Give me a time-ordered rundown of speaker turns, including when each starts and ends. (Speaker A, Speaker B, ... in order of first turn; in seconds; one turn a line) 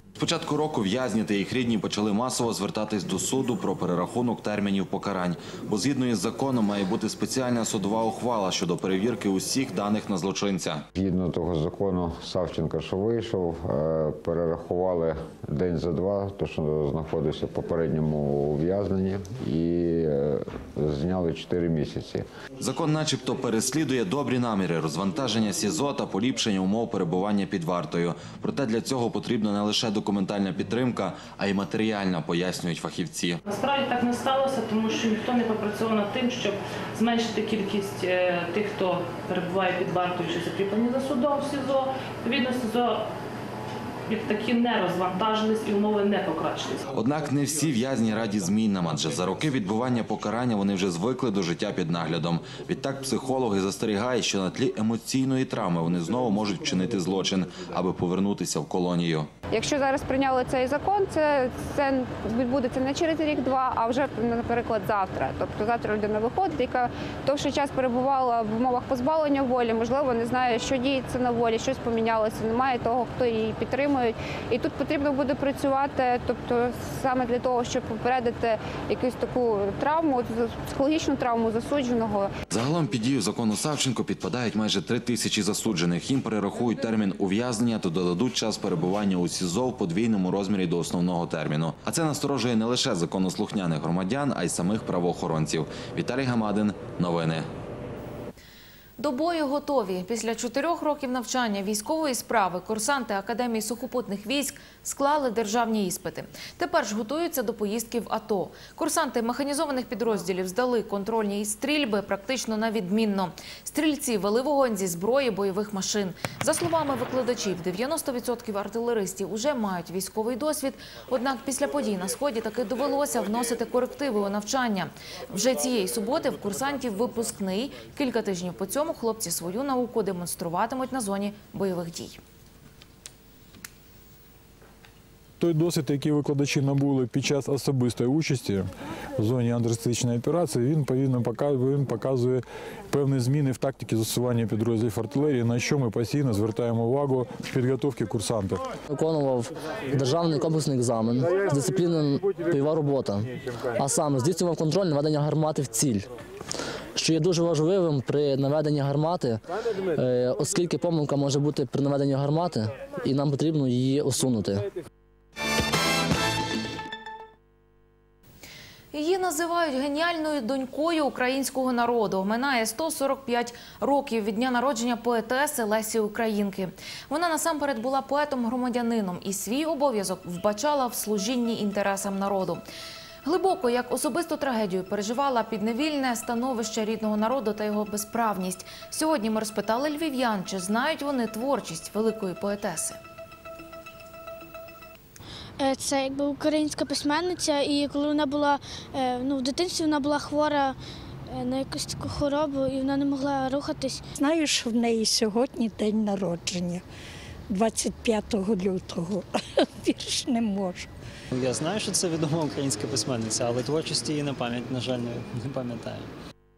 Speaker A: 0.2-10.8
Speaker B: 10.9-22.3
Speaker A: 22.6-33.4
Speaker C: 33.5-43.0
Speaker C: 44.1-46.8
Speaker A: 46.9-59.2
Speaker D: 59.5-82.3
Speaker A: 82.5-97.4
Speaker E: 99.0-132.2
Speaker F: 135.4-138.7
Speaker F: 139.2-148.6
Speaker G: 148.9-156.1
Speaker G: 156.9-159.4
Speaker G: 159.9-164.7
Speaker E: 168.9-182.6
Speaker E: 183.2-193.0
Speaker H: 195.6-200.8
Speaker H: 201.3-204.0
Speaker I: 204.3-206.6
Speaker I: 207.6-209.0
Speaker I: 209.9-210.7
Speaker J: 211.3-216.1